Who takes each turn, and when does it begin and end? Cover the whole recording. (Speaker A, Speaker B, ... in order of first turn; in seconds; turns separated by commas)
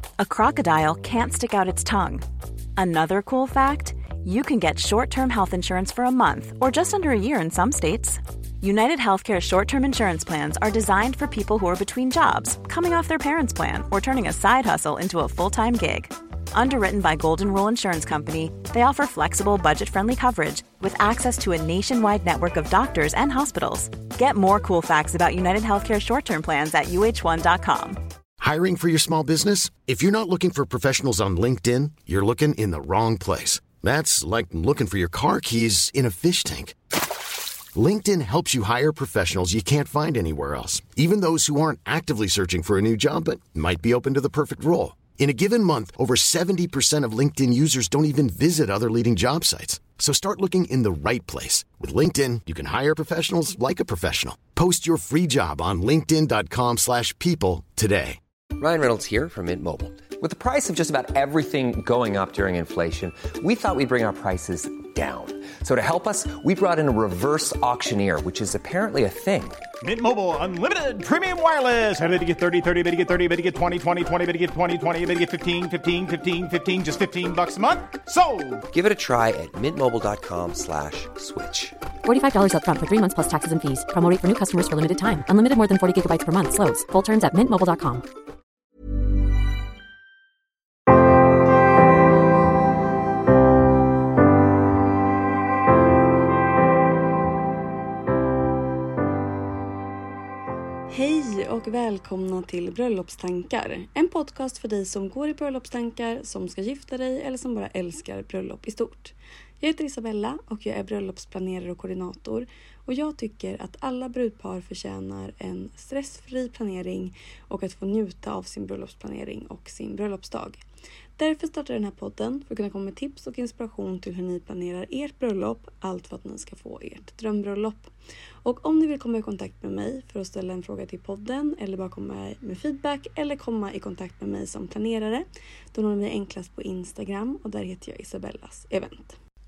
Speaker A: 0.2-2.2, Speaker A: 2.8-28.0, Speaker B: 28.4-36.7, Speaker B: 37.7-58.2, Speaker C: 58.6-69.6, Speaker D: 69.8-78.6, Speaker C: 78.7-81.8, Speaker E: 82.0-88.0, Speaker F: 100.9-120.6, Speaker F: 121.2-127.9, Speaker F: 128.4-139.2